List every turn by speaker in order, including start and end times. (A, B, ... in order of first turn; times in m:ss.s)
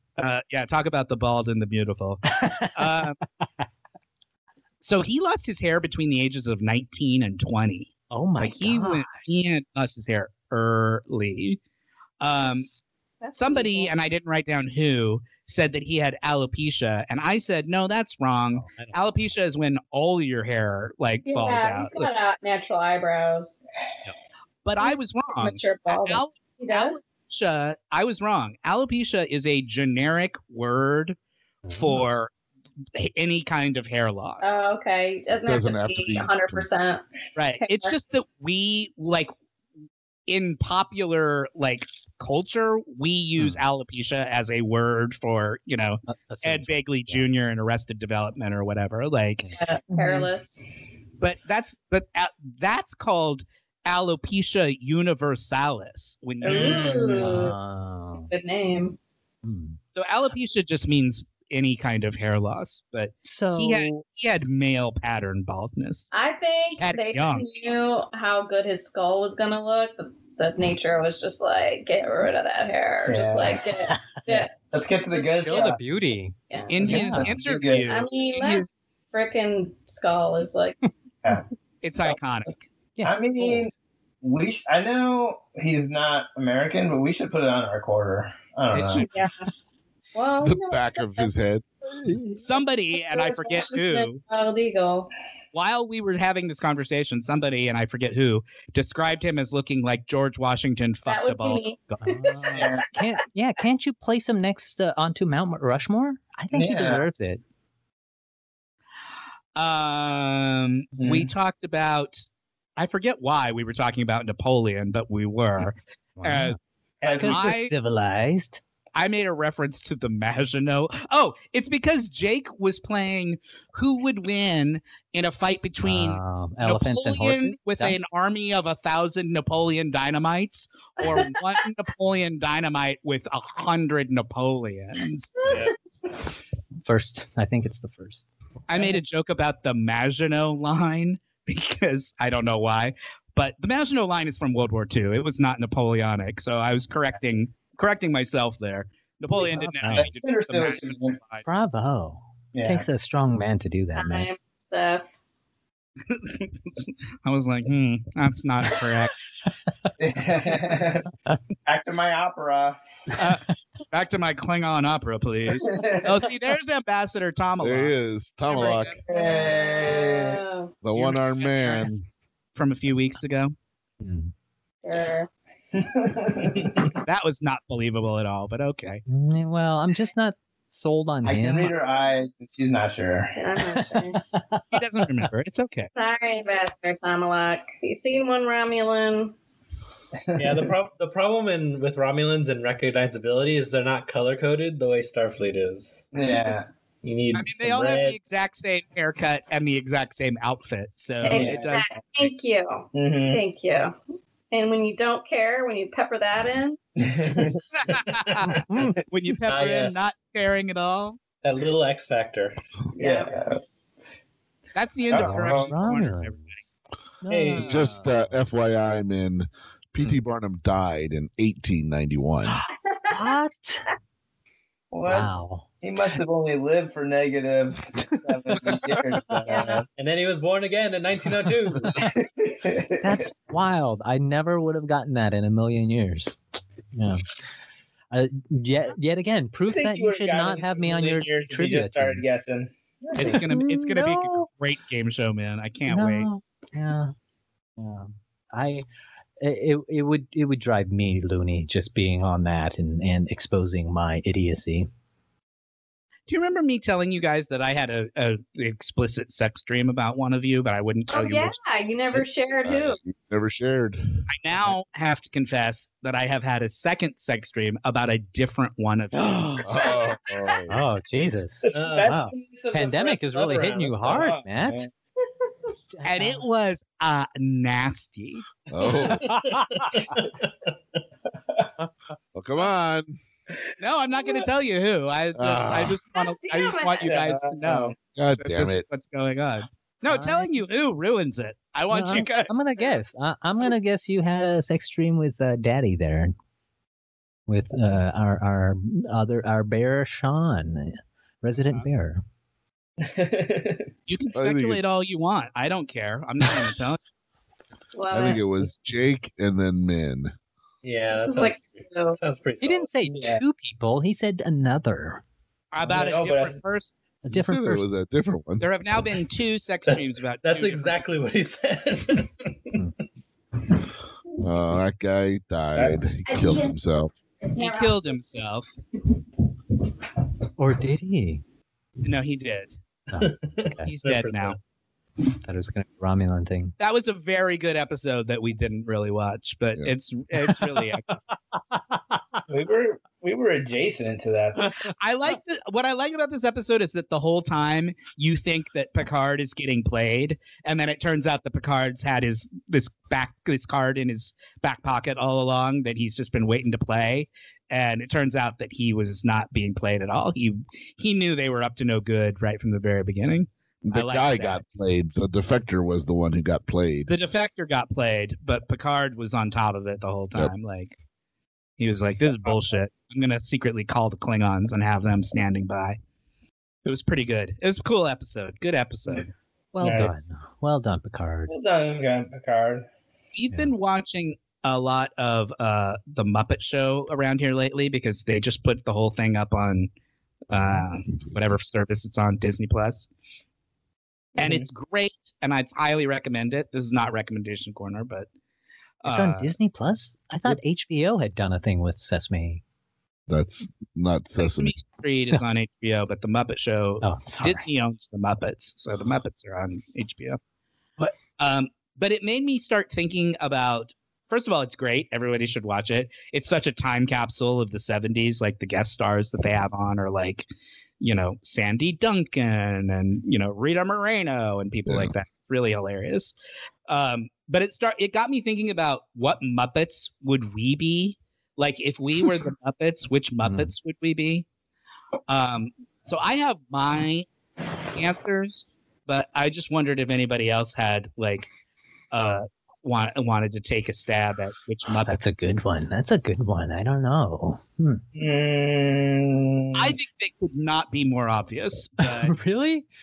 0:00.2-0:03.2 A
0:02.3-0:03.0 B
0:04.8-0:11.6 A
0:08.1-0:09.4 B
0:12.2-0:12.7 A
0:13.2-0:13.9 C
0:13.3-0:22.1 A
0:18.5-0:19.0 B
0:21.2-0:23.6 C
0:24.6-0:31.2 A
0:24.8-0:27.0 C
0:31.6-0:32.0 B
0:31.7-0:32.3 A
0:32.9-0:34.6 A
0:34.4-0:37.0 C
0:35.4-0:36.7 D
0:37.4-0:39.3 A
0:37.6-0:37.9 C
0:40.3-0:49.4 A
0:43.4-0:43.6 B
0:46.1-0:47.3 B
0:49.6-0:50.6 C
0:51.2-0:57.3 A
0:56.4-0:57.5 C
0:56.4-0:57.2 E
0:56.5-0:58.3 B
0:58.3-0:59.0 C
0:59.4-0:59.8 B
0:59.9-1:06.1 A
1:03.2-1:03.9 B
1:06.1-1:14.6 C
1:06.8-1:07.4 A
1:13.0-1:13.6 E
1:13.8-1:14.4 B
1:14.7-1:15.8 E
1:15.1-1:17.4 B
1:16.5-1:17.0 C
1:16.7-1:18.7 A
1:16.8-1:18.1 E
1:17.8-1:20.8 C
1:21.8-1:22.6 A
1:23.0-1:23.7 B
1:23.0-1:29.1 E
1:28.7-1:29.3 A
1:28.9-1:29.4 C
1:30.1-1:31.3 C
1:30.4-1:31.6 D
1:31.9-1:32.4 B
1:32.4-1:34.2 A
1:33.0-1:35.1 C
1:35.5-1:41.6 A
1:41.0-1:42.5 C
1:41.9-1:47.4 B
1:42.5-1:42.9 E
1:46.5-1:47.0 E
1:49.5-1:52.2 A
1:51.0-1:51.3 E
1:52.8-1:56.6 A
1:56.2-1:56.6 B
1:57.0-1:57.5 E
1:57.1-1:57.7 A
1:57.1-1:58.6 B
1:58.9-2:15.7 A
2:05.8-2:08.0 B
2:11.0-2:11.4 C
2:16.8-2:18.3 B
2:18.7-2:31.4 A
2:29.4-2:30.1 B
2:29.9-2:31.2 E
2:31.4-2:34.3 B
2:32.5-2:32.9 E
2:33.9-2:35.1 C
2:36.1-2:39.2 A
2:39.4-2:39.9 B
2:40.0-2:41.1 E
2:41.6-2:42.8 E
2:43.2-2:47.9 A
2:45.5-2:46.1 E
2:47.6-2:49.0 D
2:48.4-2:49.0 A
2:49.1-2:50.4 E
2:49.1-2:50.7 C
2:50.8-2:52.0 D
2:50.9-2:51.9 A
2:52.5-2:53.5 A
2:54.0-2:54.3 B
2:54.8-2:55.3 C
2:55.7-2:57.0 E
2:57.0-2:59.0 A
2:59.1-3:01.7 B
3:01.2-3:03.4 E
3:03.4-3:04.2 C
3:03.7-3:04.6 B
3:04.7-3:05.9 A
3:05.9-3:09.3 C
3:10.2-3:10.7 E
3:10.4-3:16.1 F
3:16.1-3:16.7 E
3:17.0-3:18.2 F
3:17.3-3:22.3 A
3:21.2-3:24.0 C
3:21.2-3:21.8 E
3:22.9-3:23.4 E
3:24.5-3:26.8 C
3:27.0-3:28.1 E
3:27.8-3:31.2 A
3:28.4-3:29.0 B
3:29.4-3:30.1 F
3:31.4-3:32.6 F
3:32.9-3:33.6 E
3:33.0-3:33.3 C
3:34.7-3:36.6 A
3:35.1-3:35.7 E
3:35.1-3:36.5 B
3:37.2-3:38.3 B
3:37.3-3:37.9 F
3:37.6-3:42.6 D
3:42.8-3:43.3 C
3:43.1-3:43.9 B
3:44.9-3:49.8 E
3:45.0-3:45.6 B
3:49.4-3:49.8 C
3:49.9-3:52.0 F
3:52.0-3:53.2 E
3:53.0-3:56.4 B
3:56.9-3:57.3 B
3:58.1-4:02.2 B
3:59.7-4:03.4 E
4:03.2-4:06.3 A
4:03.2-4:04.5 B
4:05.9-4:07.1 B
4:07.8-4:08.8 B
4:09.4-4:14.9 B
4:16.3-4:21.6 A
4:21.1-4:23.0 C
4:22.2-4:24.2 D
4:24.3-4:29.7 A
4:29.1-4:29.7 B
4:29.6-4:30.8 D
4:30.7-4:34.9 B
4:31.7-4:34.9 E
4:31.7-4:32.0 F
4:35.9-4:36.4 B
4:36.0-4:38.4 A
4:38.7-4:39.4 D
4:39.0-4:40.1 B
4:42.3-4:43.2 D
4:43.8-4:52.5 A
4:45.3-4:46.0 D
4:46.1-4:47.1 C
4:47.0-4:47.9 E
4:48.2-4:48.8 D
4:50.1-4:50.5 B
4:51.9-4:56.3 B
4:57.5-5:02.2 B
5:03.0-5:03.9 E
5:04.1-5:07.0 A
5:04.4-5:04.8 D
5:07.9-5:08.4 C
5:08.1-5:10.3 D
5:10.8-5:12.9 F
5:11.1-5:12.2 C
5:12.6-5:15.2 B
5:15.7-5:16.9 A
5:15.8-5:16.6 E
5:17.2-5:17.8 B
5:17.3-5:19.1 D
5:18.6-5:21.0 A
5:19.8-5:22.3 F
5:24.4-5:27.1 D
5:25.8-5:26.0 E
5:27.5-5:28.7 A
5:30.6-5:31.4 B
5:32.0-5:32.7 A
5:33.1-5:33.9 B
5:33.8-5:34.6 A
5:34.0-5:34.6 F
5:35.4-5:36.7 B
5:36.8-5:41.1 A
5:40.5-5:40.8 B
5:41.7-5:42.4 B
5:42.5-5:44.7 E
5:44.6-5:44.9 B
5:44.8-6:04.6 A
6:03.8-6:07.1 D
6:07.1-6:11.0 A
6:11.8-6:16.0 A
6:16.8-6:19.3 A
6:19.7-6:21.5 B
6:19.8-6:20.2 E
6:21.5-6:22.9 E
6:23.3-6:29.9 A
6:30.5-6:33.1 A
6:34.4-6:34.7 E
6:34.4-6:38.3 A
6:39.0-6:39.5 A
6:39.0-6:42.6 B
6:43.3-6:44.8 D
6:44.4-6:50.4 A
6:47.0-6:47.6 B
6:51.0-7:00.5 A
7:01.0-7:06.3 A
7:04.8-7:05.1 D
7:06.9-7:14.4 A
7:13.4-7:13.7 B
7:15.3-7:17.3 A
7:17.9-7:21.5 A
7:22.1-7:25.2 A
7:25.0-7:28.0 B
7:28.2-7:30.0 E
7:29.7-7:32.4 A
7:32.0-7:32.8 B